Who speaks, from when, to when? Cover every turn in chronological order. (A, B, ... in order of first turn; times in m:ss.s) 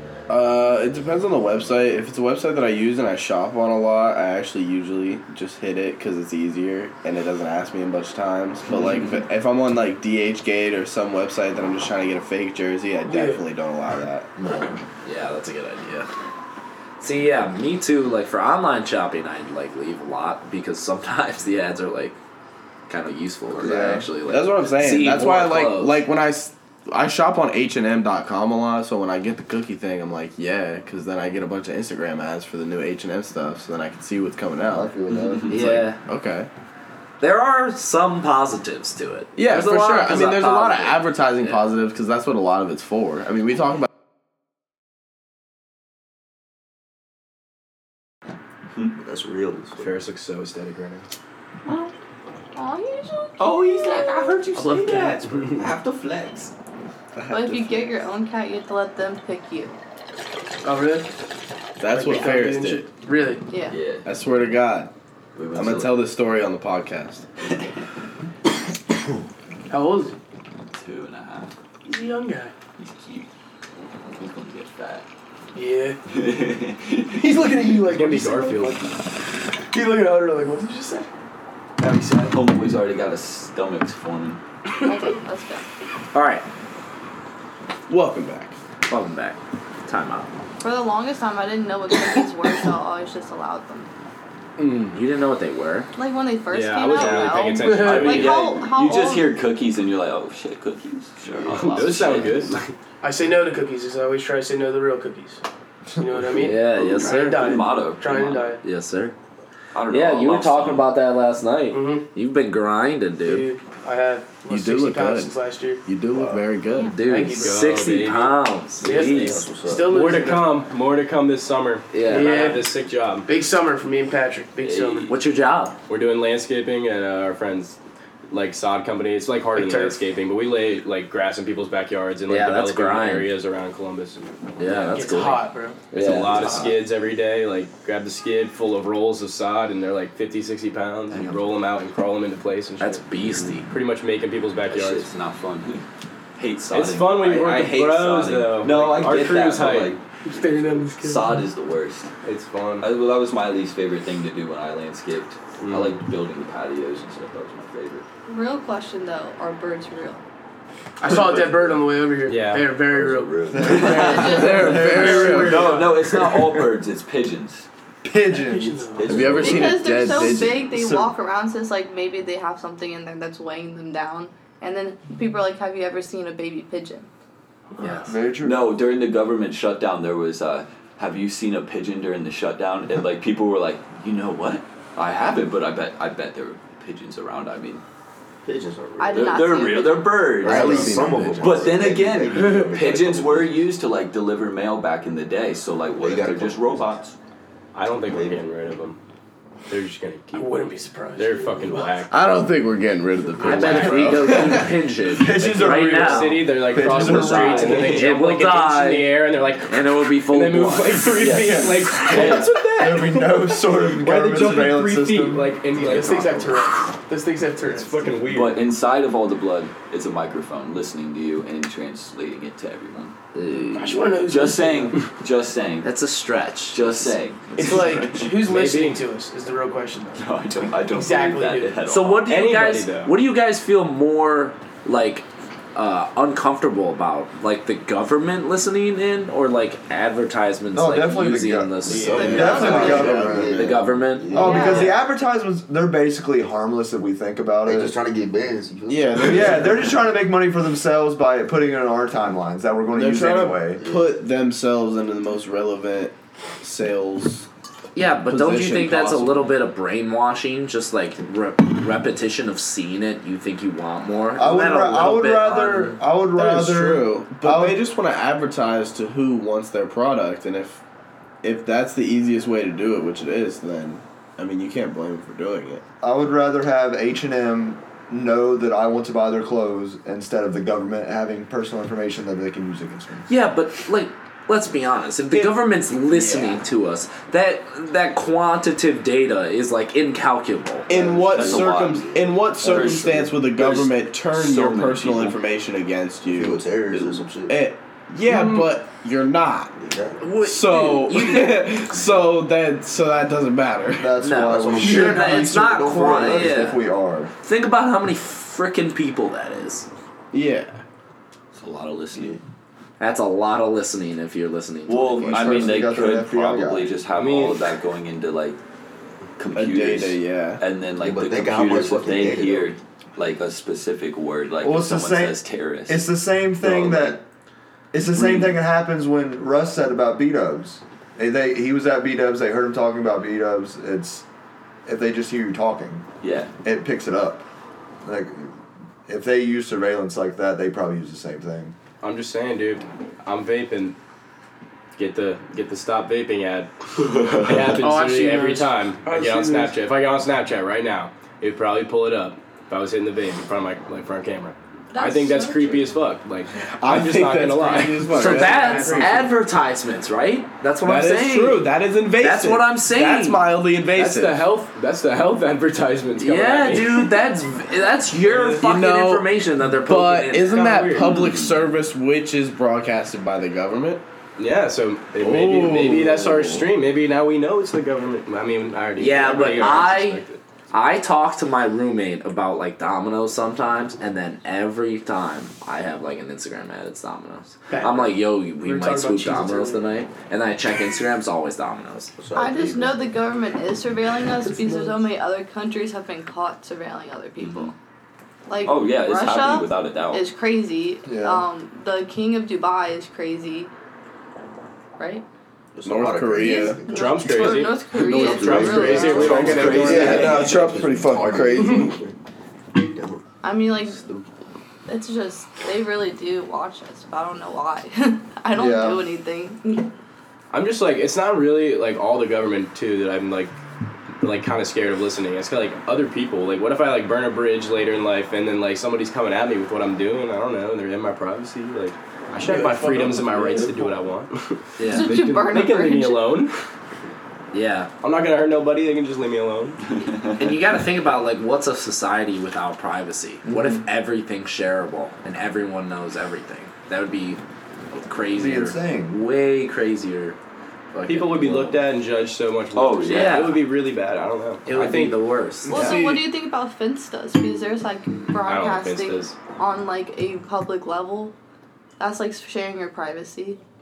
0:00.3-0:14.3 A
0:13.1-0:13.4 B
0:14.4-0:14.8 C
0:15.0-0:16.1 D
0:17.0-0:22.2 D
0:22.9-0:26.0 D
0:23.6-0:24.1 C
0:24.2-0:34.9 A
0:34.6-0:35.8 C
0:35.5-0:36.0 D
0:35.5-0:36.5 A
0:37.2-0:41.6 D
0:39.4-0:43.9 A
0:48.9-0:50.0 E
0:49.8-0:51.1 F
0:52.6-0:54.5 G
0:53.4-0:56.5 H
0:54.5-0:55.7 F
0:54.6-0:55.2 B
0:57.2-0:58.0 A
0:57.3-0:59.8 G
1:00.6-1:01.1 B
1:01.8-1:02.9 A
1:01.9-1:03.5 B
1:03.5-1:03.9 G
1:03.7-1:04.1 H
1:04.0-1:04.9 A
1:05.4-1:06.0 H
1:05.5-1:07.2 A
1:09.7-1:10.2 B
1:10.8-1:11.5 H
1:11.9-1:12.5 B
1:12.8-1:13.3 H
1:14.1-1:15.1 H
1:15.5-1:16.0 B
1:16.1-1:17.5 H
1:17.1-1:21.1 B
1:17.8-1:18.9 F
1:21.8-1:22.4 B
1:22.3-1:24.4 H
1:24.8-1:25.6 G
1:26.1-1:26.4 D
1:27.9-1:28.6 A
1:28.9-1:30.3 D
1:30.6-1:33.9 G
1:34.6-1:34.9 A
1:34.9-1:35.9 D
1:36.0-1:39.4 G
1:36.5-1:38.4 F
1:37.0-1:42.5 H
1:37.2-1:38.2 B
1:41.4-1:42.7 F
1:43.0-1:45.4 B
1:46.0-1:46.3 C
1:46.0-1:48.6 B
1:46.3-1:47.6 D
1:46.5-1:48.5 H
1:48.6-1:49.1 D
1:49.7-1:50.9 H
1:49.9-1:53.5 D
1:51.7-1:52.1 B
1:53.2-1:55.8 B
1:54.5-1:57.0 A
1:56.1-1:56.4 E
1:56.7-1:57.0 G
1:56.9-1:59.4 D
1:57.0-1:57.6 B
1:57.4-1:58.4 F
1:58.8-2:00.6 B
1:59.0-1:59.9 E
1:59.0-2:03.3 F
2:01.9-2:02.5 D
2:02.1-2:02.7 B
2:03.3-2:05.1 B
2:04.6-2:05.1 H
2:05.1-2:05.8 D
2:05.9-2:07.8 F
2:08.3-2:14.4 F
2:09.5-2:10.0 B
2:12.3-2:13.3 D
2:14.6-2:16.7 D
2:14.6-2:15.1 H
2:14.9-2:15.9 B
2:15.9-2:25.1 F
2:16.0-2:16.8 H
2:22.8-2:23.7 D
2:24.7-2:25.8 H
2:26.4-2:32.1 H
2:26.7-2:30.0 F
2:27.2-2:28.5 A
2:30.2-2:31.4 B
2:32.2-2:32.9 F
2:32.8-2:38.1 H
2:35.6-2:36.0 F
2:38.3-2:40.2 G
2:41.0-2:43.6 B
2:41.0-2:41.8 H
2:42.3-2:42.8 F
2:42.8-2:47.7 H
2:43.5-2:46.5 C
2:43.7-2:45.9 G
2:43.8-2:45.8 A
2:48.0-2:49.0 C
2:48.3-2:49.2 B
2:49.0-2:49.8 H
2:49.1-2:50.7 A
2:49.2-2:49.7 E
2:49.4-2:57.1 G
2:50.7-2:51.1 C
2:57.7-2:58.1 B
2:57.8-2:58.1 D
2:58.0-2:58.8 C
2:58.4-3:07.8 H
3:08.5-3:09.7 E
3:09.0-3:10.3 G
3:09.1-3:17.2 H
3:10.4-3:11.2 A
3:10.4-3:13.7 E
3:10.4-3:12.0 C
3:16.0-3:17.0 E
3:17.8-3:19.0 F
3:18.0-3:18.4 E
3:19.7-3:22.1 F
3:20.3-3:22.0 B
3:22.1-3:24.8 A
3:23.4-3:29.2 D
3:23.5-3:24.0 F
3:23.7-3:24.6 C
3:25.2-3:27.8 C
3:25.6-3:36.6 F
3:29.7-3:32.4 D
3:31.2-3:32.6 H
3:32.7-3:35.6 C
3:35.7-3:38.2 B
3:37.6-3:38.7 F
3:38.3-3:43.2 H
3:43.3-3:44.1 D
3:43.7-3:45.0 B
3:44.2-3:45.9 H
3:45.8-3:47.2 D
3:46.7-3:48.4 H
3:47.6-3:50.2 B
3:48.2-3:49.0 F
3:50.2-3:52.3 H
3:50.9-3:51.8 B
3:51.8-4:04.8 D
3:52.3-3:53.2 F
4:00.7-4:03.6 C
4:01.9-4:03.8 A
4:01.9-4:05.0 E
4:04.3-4:07.9 C
4:04.3-4:04.9 G
4:07.6-4:10.0 E
4:08.9-4:09.9 A
4:09.2-4:13.8 C
4:12.9-4:17.5 A
4:13.8-4:14.1 E
4:18.0-4:25.9 D
4:18.3-4:19.5 A
4:24.4-4:27.9 C
4:25.5-4:26.0 B
4:26.3-4:30.8 A
4:31.4-4:35.8 A
4:36.0-4:43.3 C
4:43.3-4:50.9 D
4:45.3-4:46.6 A
4:50.9-4:59.8 A
4:50.9-4:53.0 E
4:51.3-4:55.4 H
4:56.3-4:57.6 E
4:58.3-4:58.7 B
4:59.8-5:00.3 E
5:00.2-5:01.9 D
5:00.4-5:04.1 A
5:03.9-5:07.3 C
5:04.2-5:06.8 D
5:04.5-5:06.7 E
5:07.4-5:09.9 D
5:10.3-5:10.8 A
5:11.6-5:12.4 H
5:13.0-5:15.8 D
5:14.9-5:18.6 H
5:15.2-5:16.9 C
5:17.1-5:17.6 F
5:19.4-5:26.1 H
5:19.5-5:20.6 A
5:21.0-5:22.8 E
5:24.6-5:27.2 C
5:26.6-5:27.2 H
5:27.9-5:34.2 C
5:28.1-5:28.5 H
5:34.9-5:36.1 C
5:36.2-5:36.5 H
5:36.6-5:37.4 C
5:38.0-5:38.5 C
5:39.1-5:41.8 C
5:42.0-5:44.0 F
5:45.0-5:59.1 F
5:47.2-5:47.6 H
5:47.7-5:49.8 B
5:54.9-5:56.0 G
5:56.8-5:59.2 A
5:58.2-6:01.6 D
5:58.3-5:59.3 B
6:00.8-6:04.5 A
6:02.2-6:03.4 D
6:03.8-6:07.1 F
6:06.2-6:10.7 D
6:08.2-6:14.0 A
6:10.5-6:11.3 F
6:10.9-6:11.6 H
6:14.4-6:20.4 F
6:15.2-6:16.7 A
6:19.0-6:32.1 D
6:27.7-6:29.8 B
6:32.2-6:33.1 E
6:32.3-6:37.7 G
6:37.4-6:37.7 H
6:38.5-6:43.7 G
6:38.6-6:40.3 H
6:41.0-6:41.4 C
6:45.0-6:45.2 G
6:45.8-6:52.1 E
6:45.9-6:46.8 A
6:46.4-6:49.6 G
6:46.9-6:50.5 F
6:48.0-6:51.9 A
6:49.4-6:50.6 H
6:50.1-6:51.7 C
6:52.8-6:54.3 E
6:53.4-6:54.1 G
6:54.9-6:59.9 G
6:58.5-6:59.0 C
7:00.5-7:03.5 F
7:04.2-7:16.6 F
7:12.5-7:14.0 B
7:14.8-7:15.2 D
7:14.8-7:16.4 G
7:17.5-7:17.9 D
7:18.0-7:19.8 F
7:20.0-7:20.3 H
7:20.4-7:27.4 D
7:23.4-7:23.8 C
7:27.9-7:30.4 D
7:28.3-7:29.2 C
7:30.9-7:31.8 D
7:31.0-7:35.2 F
7:32.7-7:33.6 H
7:33.1-7:33.6 D
7:34.7-7:36.0 D
7:35.7-7:41.3 G
7:35.7-7:36.2 A
7:38.4-7:39.4 F
7:42.0-7:43.6 G